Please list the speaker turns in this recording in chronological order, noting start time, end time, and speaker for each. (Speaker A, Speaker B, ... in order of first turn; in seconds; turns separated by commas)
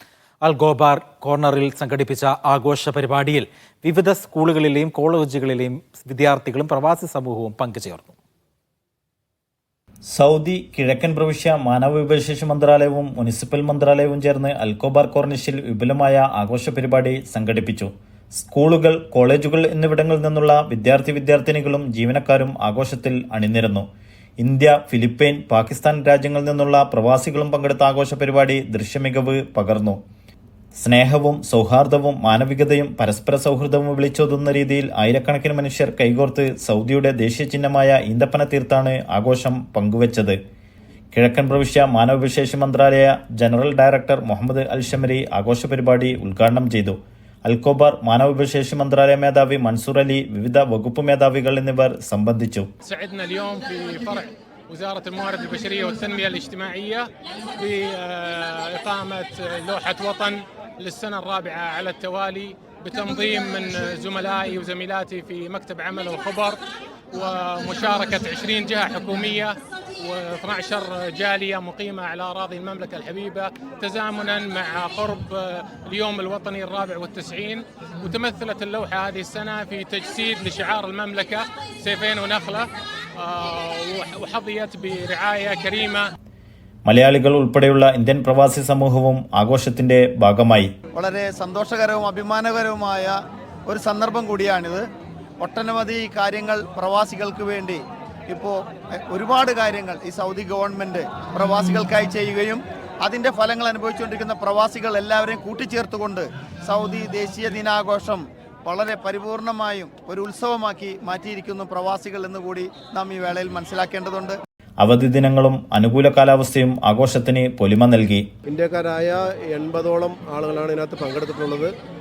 Speaker A: 0.4-8.2, Speaker B: 10.1-23.9, Speaker B: 24.4-30.0, Speaker B: 30.8-40.4, Speaker B: 41.1-52.7, Speaker C: 52.9-66.6, Speaker C: 67.1-82.7, Speaker C: 83.2-86.1, Speaker B: 86.9-90.7, Speaker D: 90.9-93.2, Speaker D: 93.7-94.8, Speaker D: 95.4-98.5, Speaker D: 99.1-114.4, Speaker B: 114.8-118.3, Speaker E: 118.5-121.7